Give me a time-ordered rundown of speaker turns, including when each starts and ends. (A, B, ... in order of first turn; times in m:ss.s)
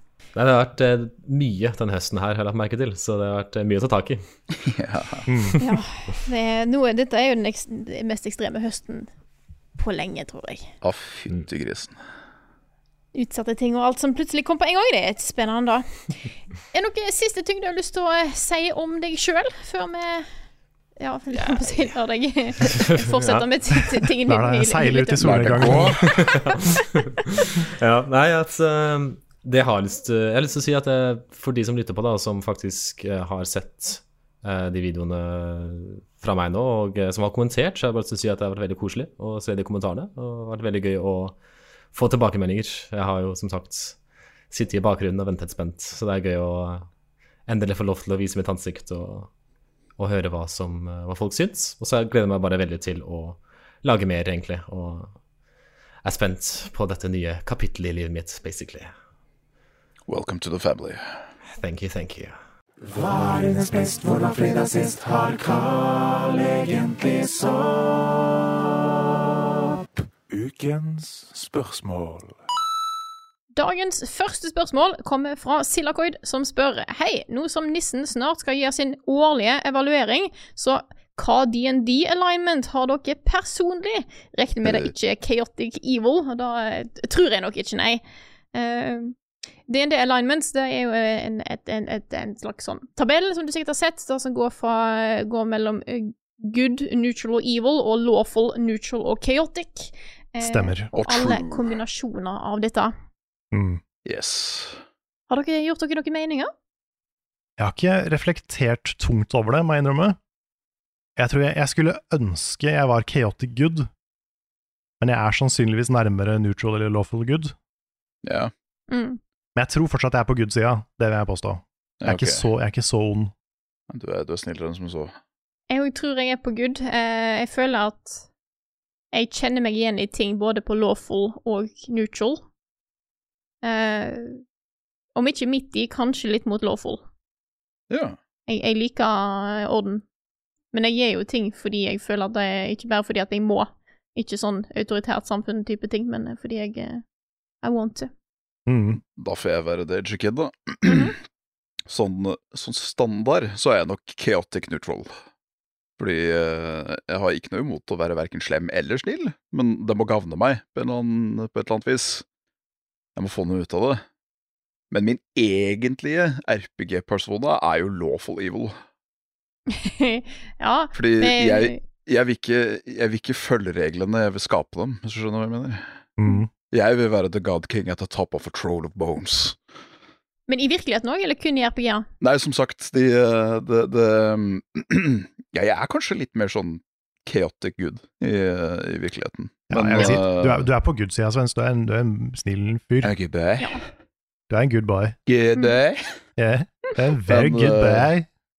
0:00.3-0:04.2 A
0:04.6-0:05.2 B
0:05.3-0:05.6 C
0:05.6-0:09.1 D
0:09.8-0:10.7 D
0:10.8-0:12.0 B
0:13.1-0:16.2 D
0:16.7-0:20.3 D
0:21.0-0:25.3 D
0:22.7-0:23.4 A
0:24.2-0:26.0 C
0:25.2-0:26.2 B
0:26.0-0:41.4 A
0:41.9-0:44.0 A
0:44.5-0:46.9 A
0:47.5-0:49.3 A
0:50.0-0:55.1 A
0:56.0-0:58.9 A
1:00.1-1:01.0 B
1:01.6-1:02.3 A
1:02.8-1:08.4 E
1:10.3-1:12.4 E
1:13.6-1:28.0 D
1:24.6-1:24.9 B
1:28.5-1:29.1 D
1:29.7-1:42.9 D
1:40.4-1:40.9 C
1:40.9-1:41.7 B
1:43.5-1:43.8 C
1:44.0-1:44.8 B
1:45.3-1:46.5 D
1:47.6-1:50.2 C
1:51.2-1:53.9 C
1:55.0-1:57.5 C
1:58.2-1:58.5 B
1:58.9-1:59.2 D
1:59.6-2:03.3 C
2:02.0-2:02.5 B
2:03.9-2:05.1 B
2:05.7-2:08.2 D
2:09.1-2:12.4 D
2:13.6-2:14.4 D
2:15.2-2:17.0 D
2:17.9-2:18.2 B
2:18.5-2:20.0 D
2:20.7-2:27.0 D
2:27.6-2:28.1 D
2:28.7-2:29.0 C
2:29.2-2:31.1 B
2:30.8-2:31.1 D
2:31.8-2:35.1 B
2:36.0-2:42.2 B
2:43.2-2:44.0 B
2:44.9-2:48.8 B
2:49.7-2:51.8 D
2:50.9-2:55.8 B
2:56.2-2:56.5 C
2:56.7-2:59.6 B
3:00.5-3:02.0 D
3:02.2-3:10.7 B
3:09.7-3:13.1 C
3:13.0-3:13.8 B
3:14.5-3:15.2 C
3:15.3-3:16.0 B
3:16.4-3:18.3 C
3:17.3-3:18.1 B